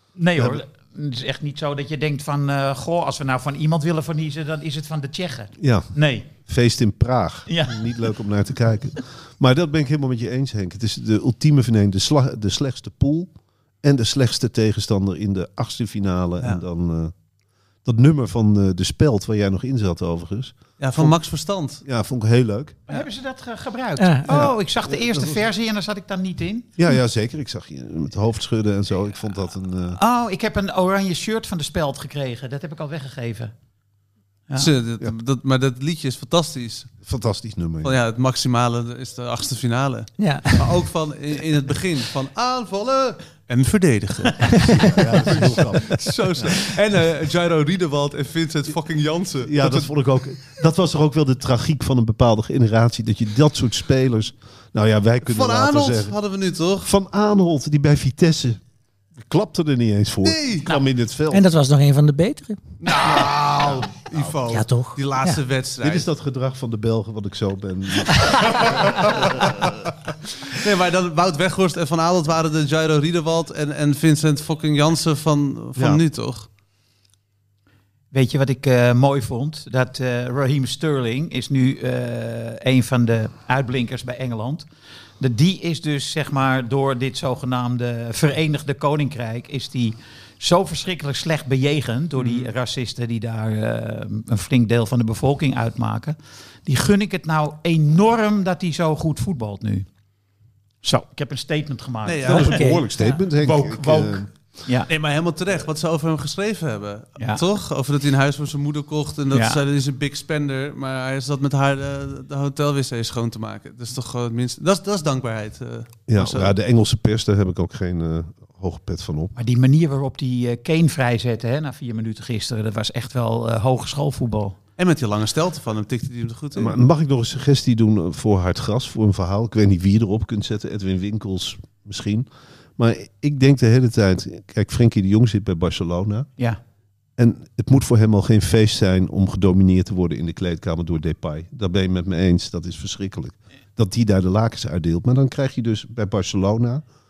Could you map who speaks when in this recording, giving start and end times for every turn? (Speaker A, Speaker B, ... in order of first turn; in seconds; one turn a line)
Speaker A: 0.2-6.3
Speaker B: 0.3-0.6
Speaker B: 5.6-13.3
Speaker A: 7.5-7.9
Speaker B: 13.8-17.1
Speaker B: 17.8-21.2
Speaker C: 20.8-21.8
Speaker B: 21.8-22.8
Speaker A: 22.9-26.7
Speaker D: 24.0-24.4
Speaker B: 24.3-25.4
Speaker B: 26.8-30.0
Speaker A: 30.0-33.5
Speaker C: 34.5-36.9
Speaker B: 37.0-38.0
Speaker C: 37.8-49.9
Speaker D: 40.2-40.7
Speaker D: 44.4-45.0
Speaker B: 44.8-46.6
Speaker B: 49.4-56.1
Speaker C: 55.2-56.9
Speaker B: 56.8-58.6
Speaker B: 59.1-61.4
Speaker C: 60.2-60.6
Speaker D: 61.3-62.6
Speaker C: 62.8-66.1
Speaker D: 64.5-65.4
Speaker B: 65.8-69.7
Speaker C: 68.5-69.7
Speaker C: 70.5-76.5
Speaker B: 75.8-76.0
Speaker A: 78.1-84.7
Speaker A: 85.2-99.8
Speaker C: 92.2-92.5
Speaker A: 100.8-102.7
Speaker C: 102.0-102.6
Speaker B: 102.2-104.3
Speaker D: 102.3-103.2
Speaker A: 103.4-104.9
Speaker C: 104.9-116.5
Speaker A: 109.3-109.6
Speaker B: 116.1-119.3
Speaker A: 119.3-124.6
Speaker C: 124.8-126.8
Speaker B: 126.5-136.3
Speaker B: 137.2-146.8